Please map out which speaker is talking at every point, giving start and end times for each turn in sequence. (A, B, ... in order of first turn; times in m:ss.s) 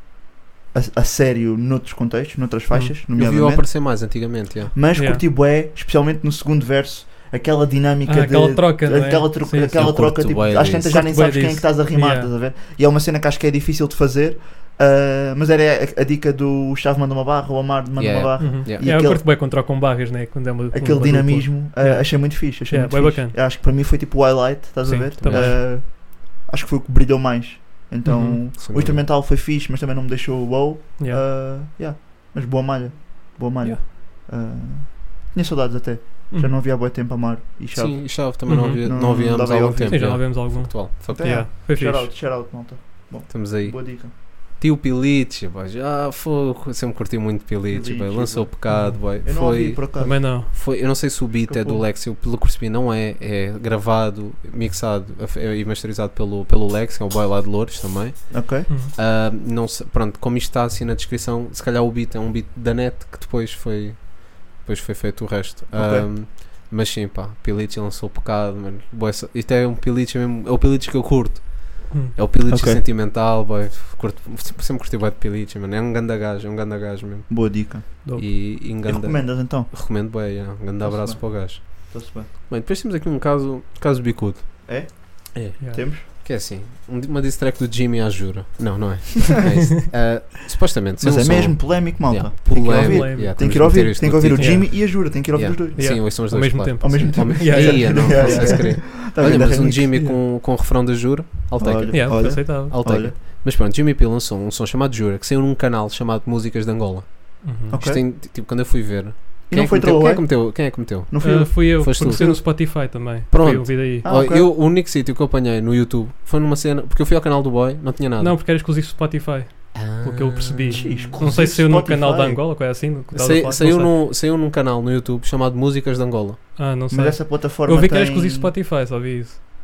0:00.7-0:19.2 A
0:03.1-0:04.7 B
0:05.0-0:05.2 C
0:08.0-0:10.4 C
0:09.7-0:11.0 B
0:10.9-0:12.3 C
0:18.0-0:18.9 B
0:18.4-0:23.4 C
0:20.7-0:40.3 A
0:24.8-0:25.6 C
0:25.2-0:25.6 B
0:28.0-0:28.4 C
0:28.6-0:29.0 B
0:31.0-0:31.2 C
0:36.3-0:36.6 C
0:37.7-0:41.5 B
0:38.5-0:38.8 C
0:39.9-0:42.1 C
0:41.1-0:44.1 A
0:43.3-1:58.4 B
0:47.7-0:50.4 A
0:48.7-0:49.0 C
0:50.0-0:50.5 C
0:51.4-0:51.9 A
0:58.3-0:58.7 A
1:05.7-1:06.1 A
1:11.9-1:12.2 C
1:12.5-1:12.8 A
1:17.3-1:22.3 A
1:24.6-1:26.0 A
1:31.0-1:36.1 A
1:32.6-1:38.8 C
1:36.8-1:40.0 A
1:41.6-1:43.2 A
1:41.9-1:43.0 C
1:47.4-1:47.8 C
1:47.7-1:48.0 A
1:49.5-1:52.1 A
1:51.2-1:54.1 C
1:54.0-1:54.5 A
1:58.2-2:04.0 C
1:59.7-2:01.3 B
2:00.7-2:02.4 A
2:03.1-2:06.6 B
2:06.6-2:09.4 C
2:06.9-2:08.5 A